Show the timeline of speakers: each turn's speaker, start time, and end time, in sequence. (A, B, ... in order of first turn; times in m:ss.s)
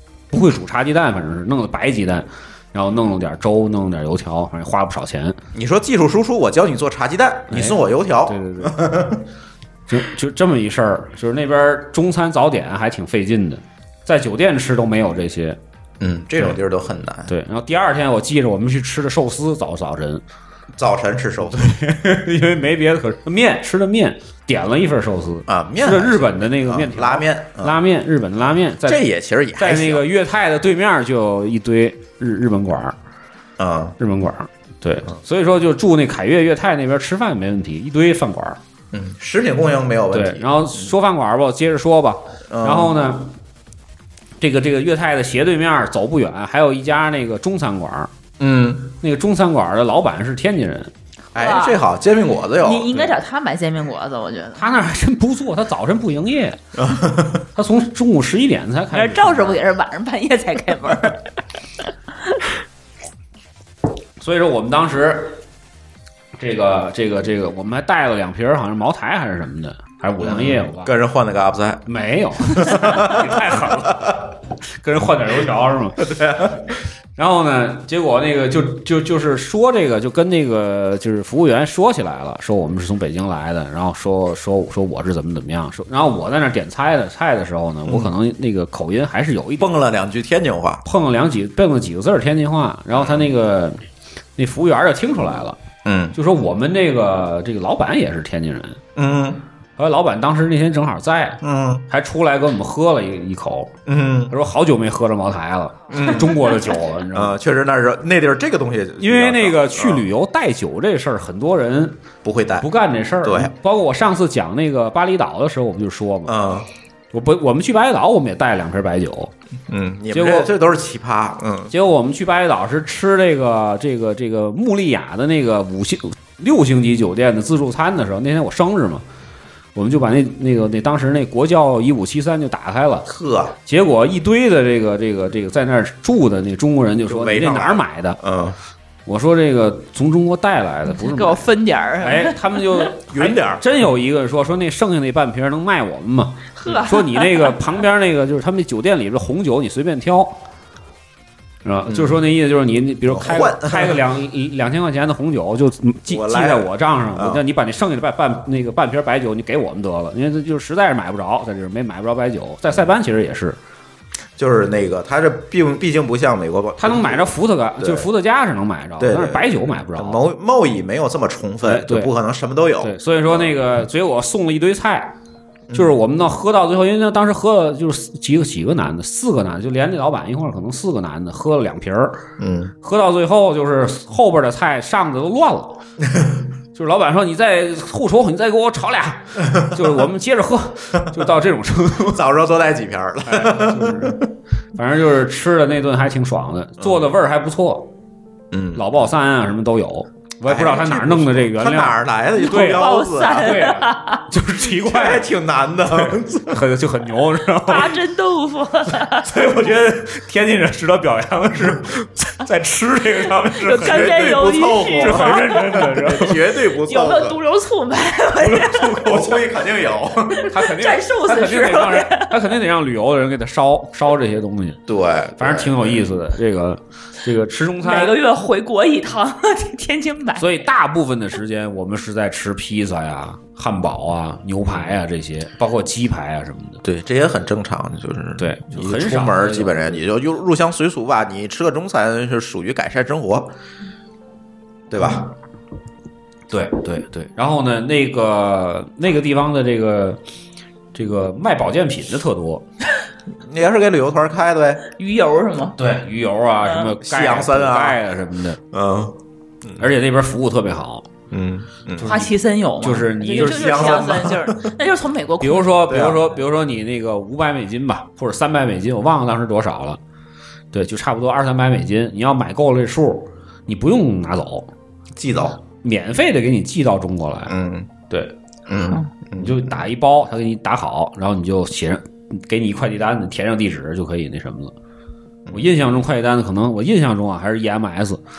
0:00.3-0:05.4 A
0:05.5-0:09.2 B
0:07.5-0:08.8 A
0:09.9-0:15.6 A
0:16.0-0:17.3 B
0:17.3-0:20.2 A
0:20.8-0:21.7 B
0:21.5-0:29.0 A
0:25.5-0:27.8 B
0:28.8-0:30.0 B
0:29.6-0:33.0 A
0:33.6-0:34.0 B
0:34.0-0:38.6 A
0:38.9-0:40.9 B
0:40.1-0:43.4 A
0:42.5-0:43.0 B
0:44.4-0:48.1 A
0:48.4-0:48.9 B
0:49.0-0:50.9 A
0:51.3-0:53.1 B
0:51.4-0:51.8 C
0:52.6-0:54.7 C
0:54.6-0:56.6 A
0:56.7-0:57.4 B
0:57.6-0:59.6 A
0:58.9-1:01.2 C
1:04.2-1:05.4 A
1:06.4-1:10.9 A
1:10.2-1:11.9 B
1:11.9-1:14.2 A
1:12.4-1:14.2 B
1:14.8-1:16.1 A
1:16.0-1:16.7 B
1:17.2-1:29.8 A
1:27.9-1:28.1 B
1:29.6-1:30.8 B
1:30.8-1:33.8 A
1:32.9-1:33.3 B
1:34.4-1:35.6 A
1:35.8-1:36.2 B
1:36.1-1:38.8 A
1:39.0-1:39.4 B
1:39.8-1:43.7 A
1:41.4-1:41.9 B
1:43.9-1:44.3 B
1:44.3-1:47.4 A
1:45.9-1:46.5 B
1:47.1-1:50.1 B
1:49.0-1:52.0 A
1:52.2-1:52.7 B
1:52.6-1:56.4 A
1:53.2-1:53.5 B
1:56.3-1:56.7 B
1:57.1-1:59.3 A
1:59.7-2:01.7 B
2:00.1-2:00.5 A
2:01.7-2:09.0 A
2:09.7-2:13.1 A
2:13.1-2:13.6 B
2:13.7-2:18.2 A
2:17.1-2:18.6 B
2:19.1-2:21.5 A
2:20.9-2:22.9 C
2:22.0-2:30.4 A
2:23.1-2:23.6 B
2:26.6-2:27.6 C
2:31.6-2:43.6 A
2:31.9-2:32.2 B
2:33.1-2:34.0 B
2:36.1-2:37.4 B
2:44.4-2:48.1 B
2:46.8-2:50.2 A
2:49.0-2:53.7 B
2:51.6-2:52.1 A
2:52.8-2:55.1 A
2:55.7-2:56.0 B
2:55.7-3:02.2 A
3:02.4-3:02.7 B
3:02.8-3:05.8 A
3:06.1-3:06.4 B
3:06.7-3:12.2 A
3:09.4-3:10.0 B
3:12.1-3:14.3 B
3:13.3-3:14.2 A
3:14.8-3:17.9 A
3:16.8-3:17.1 B
3:18.5-3:19.0 B
3:18.7-3:25.3 A
3:20.4-3:23.7 B
3:22.4-3:24.2 C
3:24.7-3:26.6 B
3:25.9-3:28.0 A
3:27.6-3:29.3 C
3:29.2-3:36.4 A
3:33.6-3:36.0 C
3:33.7-3:37.4 B
3:36.7-3:39.1 C
3:38.4-3:39.4 A
3:38.7-3:40.5 B
3:40.3-3:42.4 C
3:40.5-3:44.8 A
3:44.9-3:46.0 B
3:45.4-3:48.1 A
3:47.8-3:50.6 C
3:50.4-3:56.8 A
3:54.6-3:54.9 B
3:56.8-4:03.5 B
3:58.4-4:00.0 A
4:04.9-4:05.3 B
4:06.5-4:10.2 A
4:10.9-4:12.6 A
4:13.4-4:14.9 B
4:15.0-4:15.8 C
4:15.8-4:18.6 A
4:16.6-4:16.9 C
4:17.0-4:18.0 B
4:18.7-4:19.8 B
4:19.8-4:21.1 A
4:21.3-4:22.3 B
4:22.0-4:22.3 A
4:22.0-4:25.8 C
4:22.8-4:24.3 A
4:23.3-4:24.7 B
4:25.4-4:30.0 A
4:25.9-4:26.3 B
4:30.7-4:34.7 A
4:35.2-4:35.6 B
4:35.8-4:37.5 A
4:37.5-4:37.9 B
4:38.7-4:39.8 B
4:39.4-4:44.7 A
4:45.4-4:45.7 B
4:45.5-4:48.2 A